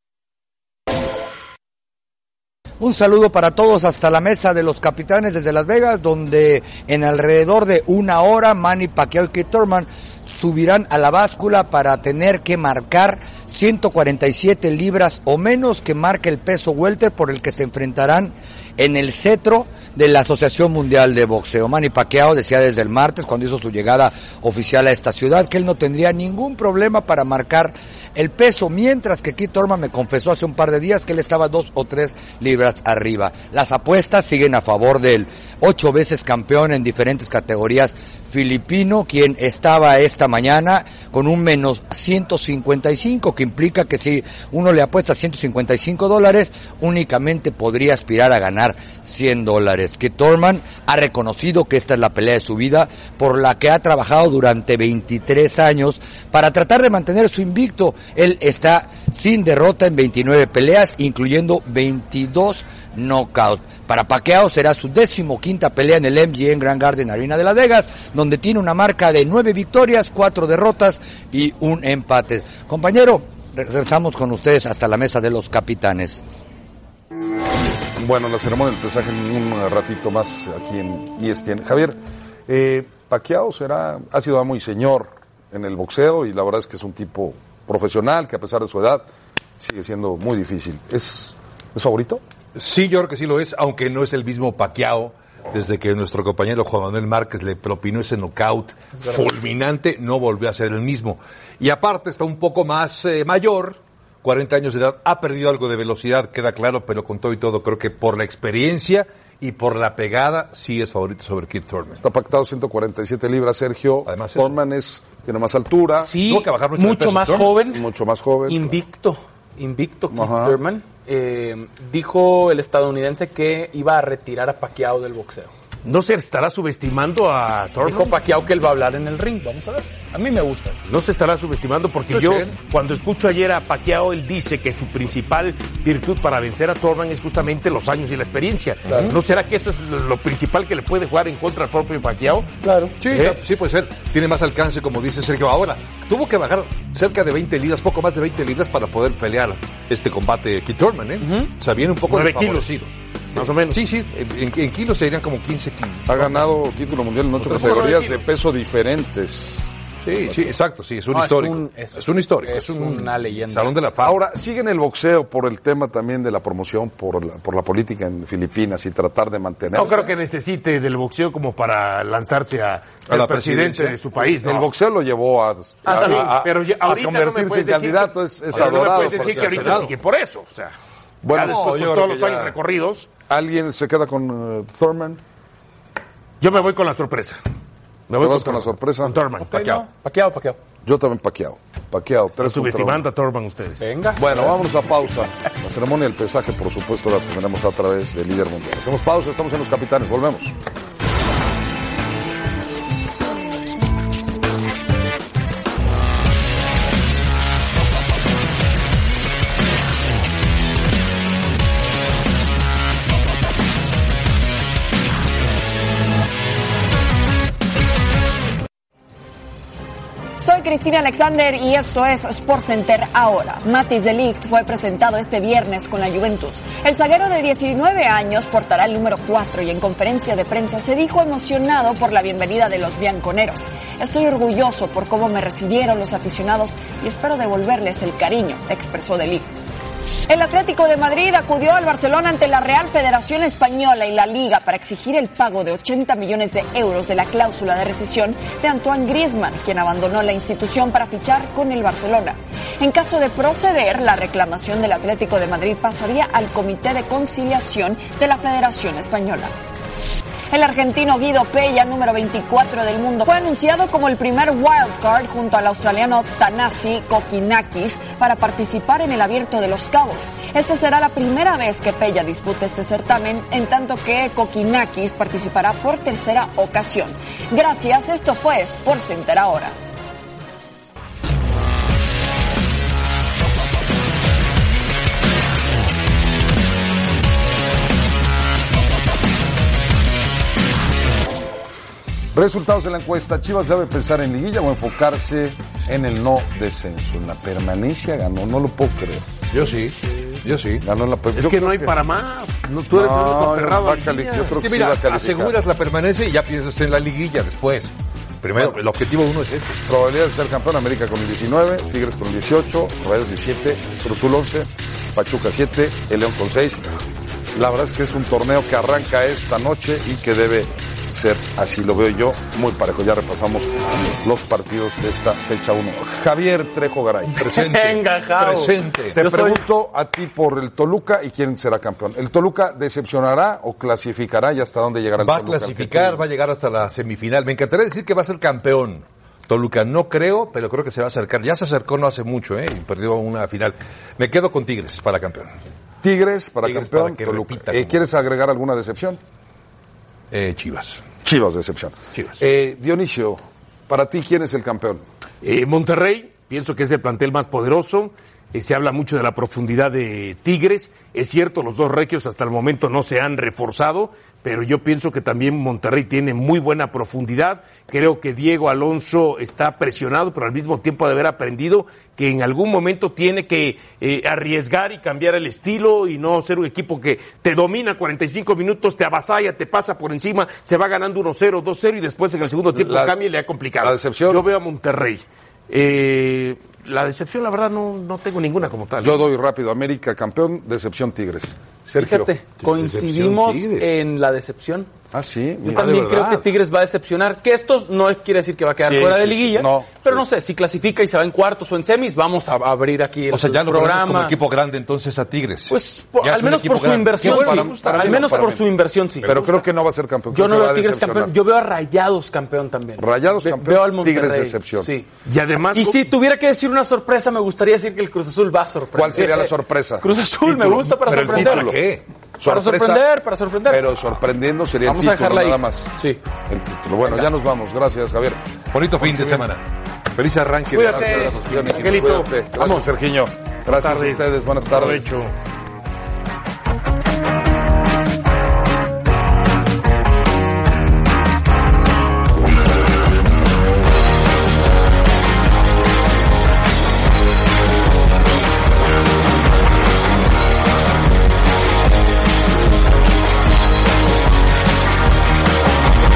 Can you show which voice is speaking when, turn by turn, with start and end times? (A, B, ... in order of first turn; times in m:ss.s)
0:02.8-1:16.2 A
1:18.0-1:29.0 B
1:29.6-1:32.2 B
1:32.6-1:52.0 C
1:52.0-1:56.2 B
1:54.0-1:54.5 C
1:56.0-1:57.8 D
1:56.1-1:57.6 C
1:57.5-1:58.8 B
1:58.4-2:05.5 D
2:00.1-2:00.6 B
2:05.8-2:08.2 E
2:07.8-2:10.8 D
2:10.9-2:22.5 E
2:12.1-2:12.5 C
2:18.9-2:19.1 C
2:22.6-2:23.4 D
2:23.0-2:36.5 C
2:31.2-2:31.5 D
2:32.1-2:32.8 E
2:33.3-2:33.8 E
2:36.1-2:39.7 B
2:37.4-2:38.2 C
2:40.0-2:44.2 C
2:40.3-2:40.5 B
2:41.1-2:43.7 D
2:44.0-2:50.1 B
2:49.7-2:54.7 E
2:53.1-2:53.9 C
2:53.1-2:59.9 B
2:55.8-3:00.7 E
2:55.9-2:56.3 D
2:58.5-2:59.9 C
3:01.2-3:01.6 B
3:01.3-3:03.1 E
3:01.3-3:02.5 C
3:03.3-3:05.2 B
3:06.4-3:07.4 E
3:08.1-3:09.5 E
3:08.2-3:09.2 B
3:09.4-3:10.6 D
3:09.5-3:09.8 C
3:10.8-3:13.0 B
3:12.4-3:13.8 E
3:13.8-3:14.6 D
3:14.2-3:20.5 B
3:40.4-3:59.5 F
4:00.3-4:19.5 F
4:20.5-4:39.8 F
4:52.3-4:59.3 B
4:59.5-5:00.8 C
5:00.8-5:01.9 B
5:01.3-5:04.6 E
5:02.9-5:05.6 B
5:04.6-5:09.8 C
5:09.9-5:17.0 B
5:17.5-5:27.4 B
5:27.4-5:29.3 C
5:27.4-5:29.6 D
5:29.1-5:36.2 B
5:35.2-5:45.6 C
5:46.0-5:49.2 B
5:46.6-5:48.0 C
5:50.3-5:51.0 C
5:51.2-5:55.0 B
5:55.4-6:29.2 E
6:22.7-6:23.1 B
6:23.8-6:24.4 B
6:29.0-6:32.3 B
6:32.0-6:34.9 D
6:32.6-6:34.0 C
6:35.1-6:35.8 B
6:35.6-6:44.4 D
6:35.7-6:36.5 C
6:38.8-6:40.2 B
6:43.3-6:48.6 C
6:45.7-6:49.6 D
6:47.2-6:48.6 B
6:49.2-6:51.3 B
6:50.3-6:55.1 D
6:53.0-6:54.9 B
6:55.2-6:56.1 E
6:55.7-7:01.8 D
6:58.9-7:03.1 B
7:01.0-7:02.0 C
7:02.4-7:03.8 D
7:03.6-7:05.9 B
7:04.8-7:06.2 D
7:06.5-7:08.4 B
7:08.7-7:09.6 C
7:09.0-7:09.4 B
7:10.2-7:11.7 C
7:10.7-7:12.3 E
7:10.8-7:15.2 B
7:12.6-7:12.9 D
7:13.7-7:15.3 E